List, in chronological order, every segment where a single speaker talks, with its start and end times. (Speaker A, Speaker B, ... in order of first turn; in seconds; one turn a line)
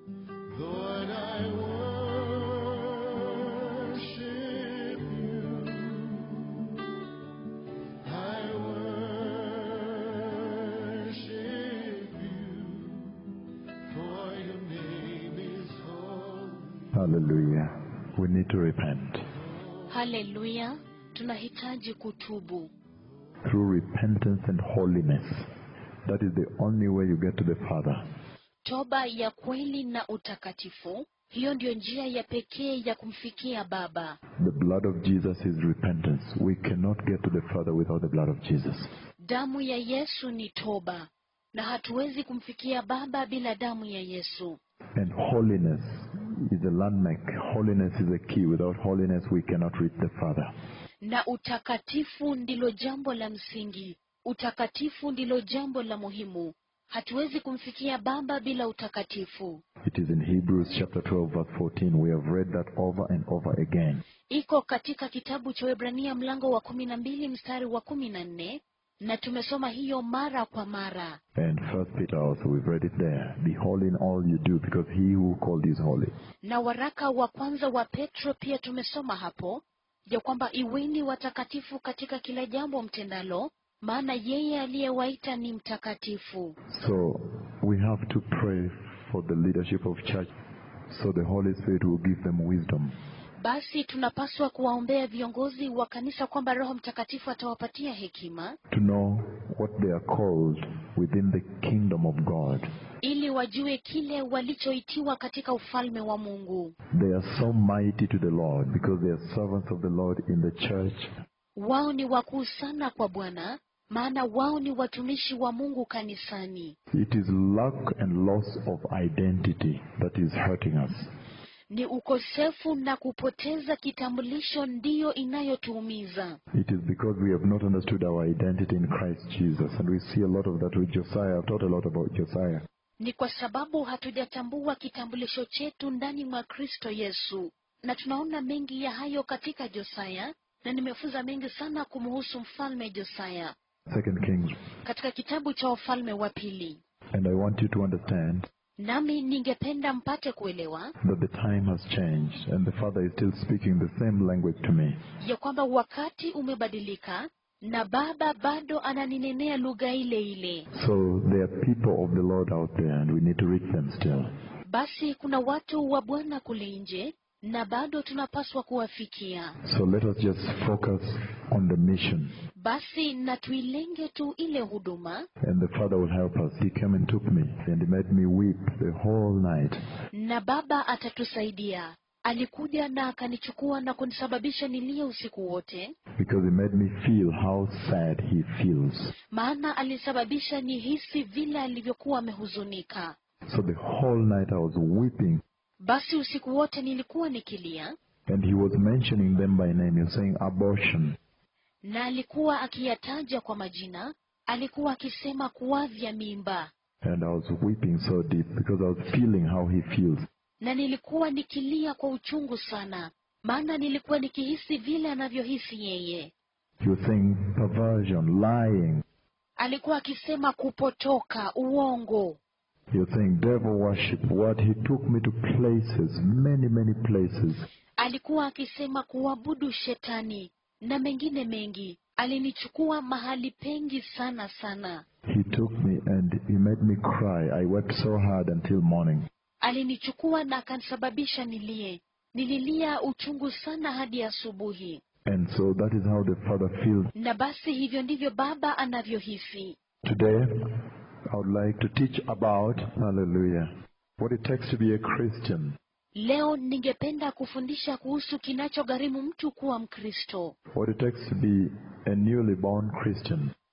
Speaker A: 0.5-6.9
Speaker A: 8.0-16.9
Speaker B: 16.9-19.2
Speaker A: 19.4-19.9
Speaker C: 19.9-22.7
Speaker B: 23.4-25.5
Speaker B: 26.1-28.0
Speaker C: 28.6-34.2
Speaker B: 34.4-38.9
Speaker C: 39.2-44.6
Speaker B: 44.9-50.5
Speaker C: 51.0-59.6
Speaker B: 59.8-64.0
Speaker C: 64.3-71.2
Speaker B: 71.3-76.1
Speaker C: 76.4-86.6
Speaker B: 86.7-90.3
Speaker B: 90.9-92.9
Speaker C: 93.4-98.6
Speaker B: 98.7-102.7
Speaker C: 103.0-106.7
Speaker B: 106.9-111.1
Speaker C: 111.5-116.8
Speaker B: 116.9-121.1
Speaker C: 121.7-126.4
Speaker B: 126.5-132.6
Speaker C: 133.0-143.5
Speaker B: 143.9-144.5
Speaker C: 144.8-146.8
Speaker B: 147.1-148.5
Speaker C: 148.8-150.9
Speaker B: 151.0-155.0
Speaker C: 155.2-160.7
Speaker B: 160.7-164.3
Speaker C: 164.7-169.6
Speaker B: 169.6-172.3
Speaker C: 172.6-175.3
Speaker B: 175.4-179.8
Speaker C: 180.1-185.9
Speaker B: 186.2-189.1
Speaker C: 189.3-193.2
Speaker B: 193.5-195.4
Speaker C: 195.8-197.9
Speaker B: 198.3-201.2
Speaker C: 201.8-206.7
Speaker B: 207.0-210.3
Speaker C: 210.6-216.3
Speaker B: 216.8-219.0
Speaker C: 219.6-222.4
Speaker B: 222.9-227.7
Speaker C: 228.0-235.0
Speaker B: 235.2-239.3
Speaker C: 239.6-245.0
Speaker B: 245.2-247.1
Speaker C: 247.1-249.8
Speaker B: 250.0-255.8
Speaker C: 256.1-260.6
Speaker B: 260.7-263.5